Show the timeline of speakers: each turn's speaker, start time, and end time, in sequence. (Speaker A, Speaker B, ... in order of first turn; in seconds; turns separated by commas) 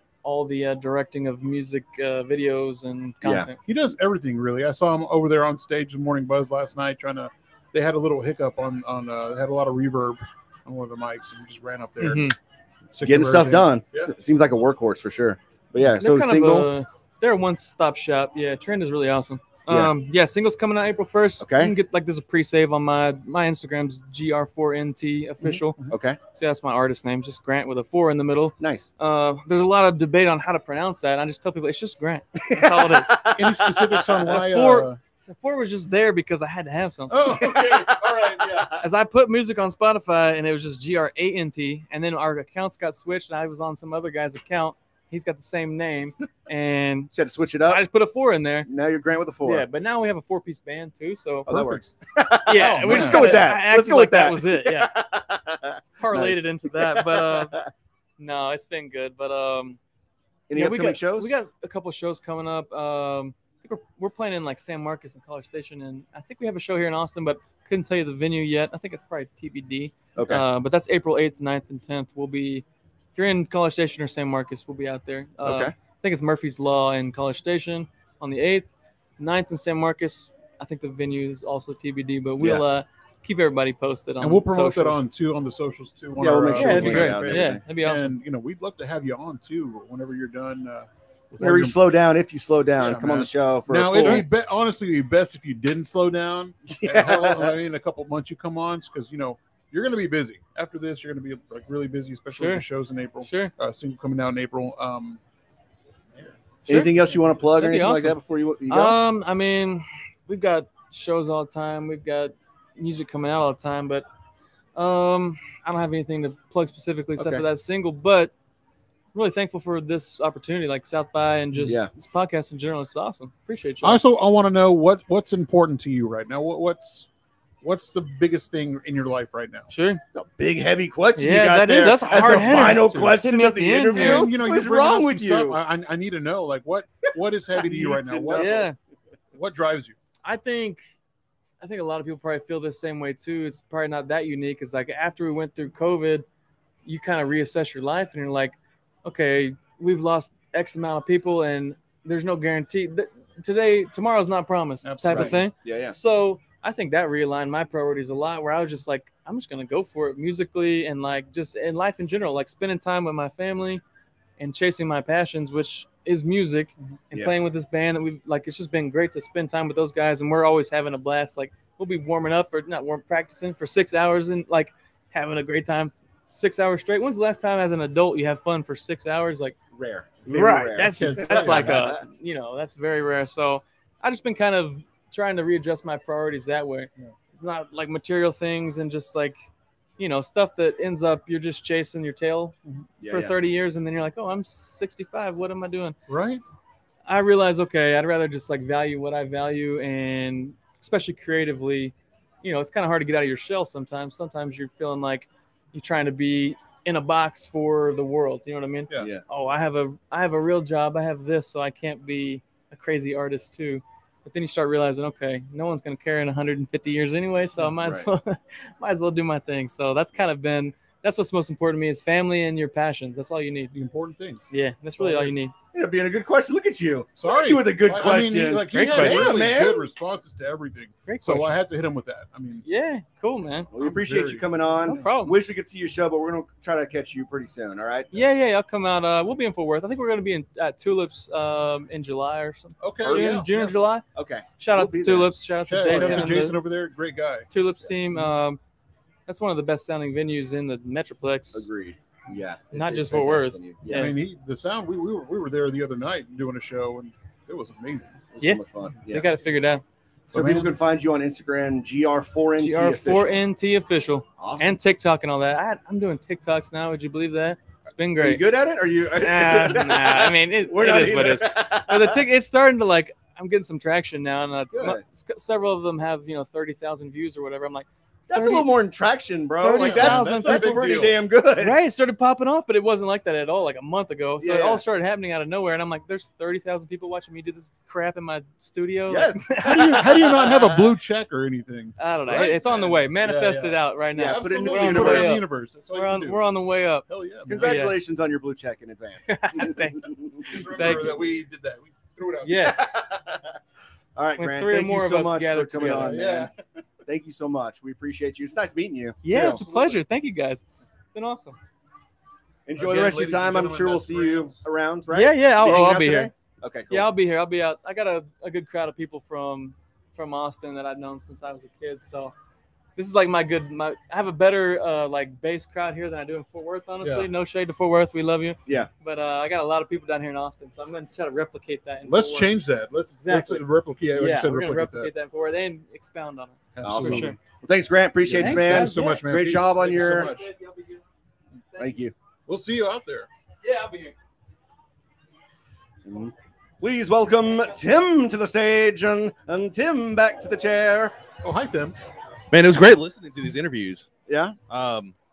Speaker A: 0.2-3.6, Speaker B: 3.2-3.5, Speaker C: 3.6-12.3, Speaker A: 12.0-12.3, Speaker C: 12.9-14.1, Speaker B: 13.0-16.7, Speaker A: 16.0-25.8, Speaker B: 21.4-21.7, Speaker C: 25.4-25.9, Speaker B: 25.9-26.2, Speaker A: 26.3-33.2, Speaker B: 28.6-28.9, Speaker B: 32.4-34.4, Speaker C: 33.3-35.0, Speaker A: 34.2-37.5, Speaker C: 37.1-38.8, Speaker B: 37.4-38.6, Speaker A: 38.8-47.1, Speaker B: 47.1-47.8, Speaker A: 47.6-48.7, Speaker B: 48.6-49.6, Speaker A: 49.4-51.5, Speaker B: 51.5-57.7, Speaker C: 51.5-51.8, Speaker A: 52.5-54.9, Speaker C: 52.5-53.2, Speaker A: 56.0-57.5, Speaker A: 58.2-59.8, Speaker B: 60.5-61.4, Speaker A: 60.5-85.0, Speaker B: 70.2-70.4, Speaker B: 75.4-75.7, Speaker C: 84.2-91.8, Speaker B: 86.2-87.6, Speaker A: 86.6-88.1, Speaker B: 91.4-94.2, Speaker C: 92.8-105.2, Speaker A: 93.9-94.2, Speaker B: 96.7-97.5, Speaker A: 102.4-102.6, Speaker A: 103.2-103.5, Speaker B: 106.7-109.0, Speaker A: 106.7-106.9, Speaker A: 107.5-108.2, Speaker A: 108.7-114.0, Speaker A: 114.7-118.3, Speaker B: 117.2-117.4, Speaker A: 119.1-124.0, Speaker B: 121.6-121.9, Speaker C: 123.8-127.1, Speaker C: 127.6-129.7, Speaker A: 129.7-130.0, Speaker B: 130.1-135.6, Speaker A: 131.2-134.3, Speaker C: 132.1-133.2, Speaker C: 133.9-138.7, Speaker B: 137.6-138.7, Speaker A: 138.3-138.8, Speaker C: 139.3-139.9, Speaker A: 140.2-140.8, Speaker A: 141.6-146.2, Speaker A: 146.8-163.8, Speaker C: 154.8-155.5, Speaker B: 155.1-156.0, Speaker A: 164.4-179.6, Speaker B: 179.7-182.0, Speaker A: 180.2-189.4, Speaker C: 180.8-181.8, Speaker A: 190.0-192.5, Speaker B: 193.0-193.3, Speaker A: 193.1-195.9, Speaker C: 196.1-196.4, Speaker A: 197.1-223.7, Speaker B: 209.0-209.2, Speaker B: 217.8-218.1, Speaker C: 223.7-225.4, Speaker A: 224.5-225.5, Speaker B: 225.7-229.9, Speaker C: 227.2-232.6, Speaker A: 228.7-229.3, Speaker A: 231.1-231.5, Speaker A: 232.6-233.7, Speaker B: 233.7-238.1, Speaker C: 233.8-235.1, Speaker A: 234.9-235.4, Speaker A: 238.1-244.0, Speaker C: 242.8-243.8, Speaker B: 243.0-243.4, Speaker B: 244.1-245.3, Speaker A: 244.6-246.6, Speaker C: 245.7-247.5, Speaker B: 245.8-246.3, Speaker A: 247.5-248.6, Speaker A: 249.3-251.7, Speaker B: 251.5-254.1, Speaker A: 252.7-254.1, Speaker C: 253.9-258.2, Speaker B: 258.3-259.3, Speaker A: 258.4-259.8, Speaker B: 260.3-263.4, Speaker C: 260.3-260.8, Speaker A: 262.6-268.4, Speaker B: 264.4-264.8, Speaker B: 268.2-272.2, Speaker A: 269.1-278.7, Speaker B: 274.7-275.0, Speaker B: 278.3-281.8, Speaker A: 279.6-280.9, Speaker C: 279.7-281.1, Speaker A: 281.6-290.2, Speaker B: 284.4-284.8, Speaker B: 289.1-290.9, Speaker C: 289.6-296.4, Speaker A: 292.0-297.0, Speaker B: 294.1-295.4, Speaker C: 297.1-297.9, Speaker B: 297.5-301.1, Speaker A: 297.6-297.9, Speaker A: 299.3-301.2, Speaker C: 300.4-303.0, Speaker A: 302.4-302.9, Speaker B: 302.6-303.4, Speaker B: 304.1-306.5, Speaker A: 304.4-306.2, Speaker C: 305.8-306.5, Speaker B: 307.1-309.6, Speaker A: 309.2-311.6, Speaker C: 309.3-310.0, Speaker B: 312.7-317.1, Speaker C: 312.8-314.6, Speaker A: 315.1-316.3, Speaker A: 316.9-322.3, Speaker A: 322.9-332.5, Speaker C: 327.0-327.3, Speaker C: 332.1-335.1, Speaker A: 333.1-333.6, Speaker A: 334.2-337.4, Speaker C: 336.7-337.4, Speaker B: 336.8-340.3, Speaker C: 338.2-340.5, Speaker A: 338.3-339.2, Speaker A: 339.8-341.0, Speaker A: 341.7-342.0, Speaker B: 341.8-342.1, Speaker C: 342.5-343.3, Speaker A: 343.6-344.1, Speaker B: 346.0-351.1, Speaker C: 351.4-351.9, Speaker D: 352.5-354.1, Speaker B: 354.3-354.6, Speaker D: 354.7-355.1